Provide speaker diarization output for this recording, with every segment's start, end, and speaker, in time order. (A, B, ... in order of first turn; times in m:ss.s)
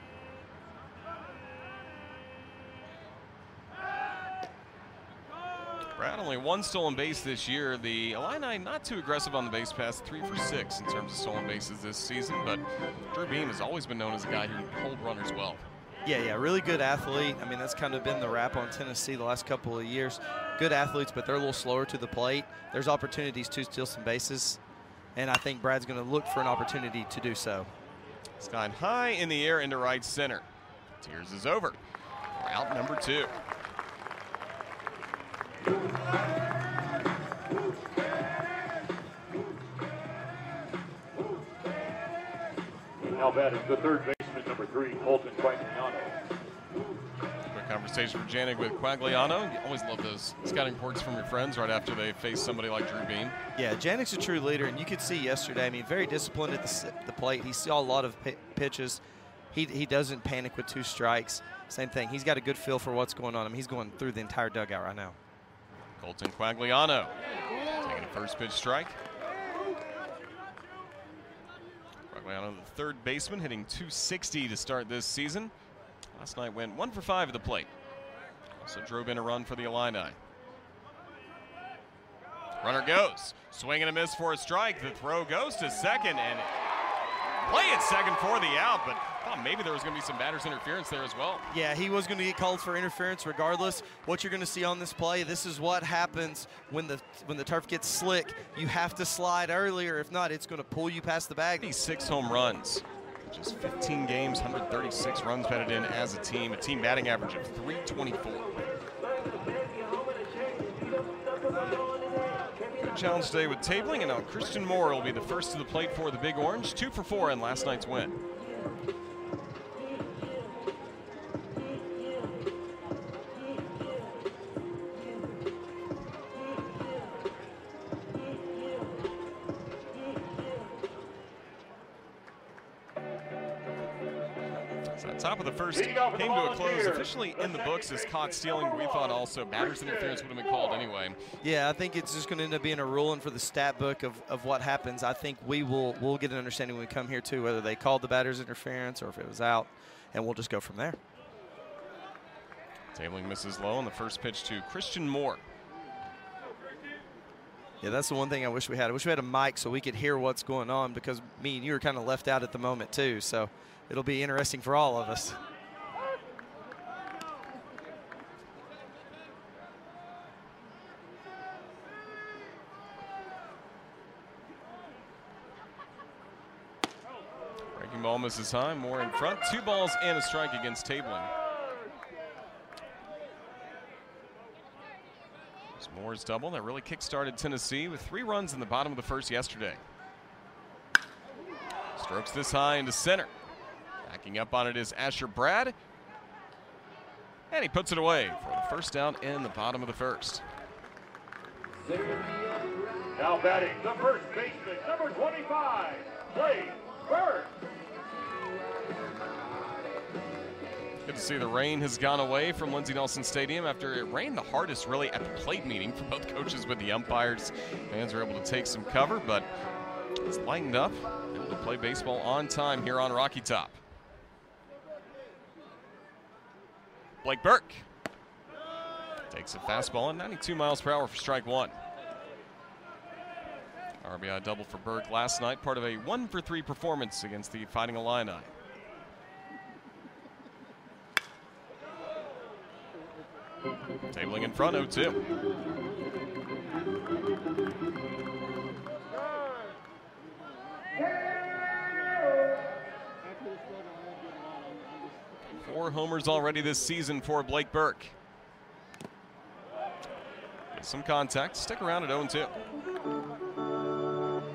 0:06.0-0:15.6 A
0:16.0-0:24.6 B
0:25.2-0:27.7 B
0:28.4-0:30.5 A
0:31.0-0:31.8 A
0:32.4-0:33.4 A
0:43.1-0:46.2 C
0:47.5-0:53.4 A
0:53.6-0:59.0 B
0:59.5-1:05.2 B
1:06.0-1:07.2 A
1:07.8-1:09.0 A
1:12.1-1:15.5 A
1:16.2-1:17.7 A
1:18.6-1:20.2 A
1:22.6-1:26.6 A
1:27.4-1:31.5 A
1:31.5-1:41.7 B
1:41.6-1:48.7 A
1:52.8-1:58.2 A
2:14.9-2:21.2 A
2:15.7-2:20.3 C
2:21.4-2:31.0 B
2:32.9-2:35.4 A
2:37.8-2:45.4 B
2:57.8-3:01.3 A
3:05.8-3:09.8 A
3:12.0-3:13.3 A
3:14.0-3:15.8 A
3:17.5-3:20.4 A
3:23.2-3:27.5 C
3:31.0-3:39.5 A
3:40.2-3:43.8 A
3:47.2-3:47.9 A
3:49.3-3:51.8 A
3:54.0-3:58.5 A
4:04.1-4:05.2 A
4:15.6-4:18.2 A
4:20.7-4:22.6 A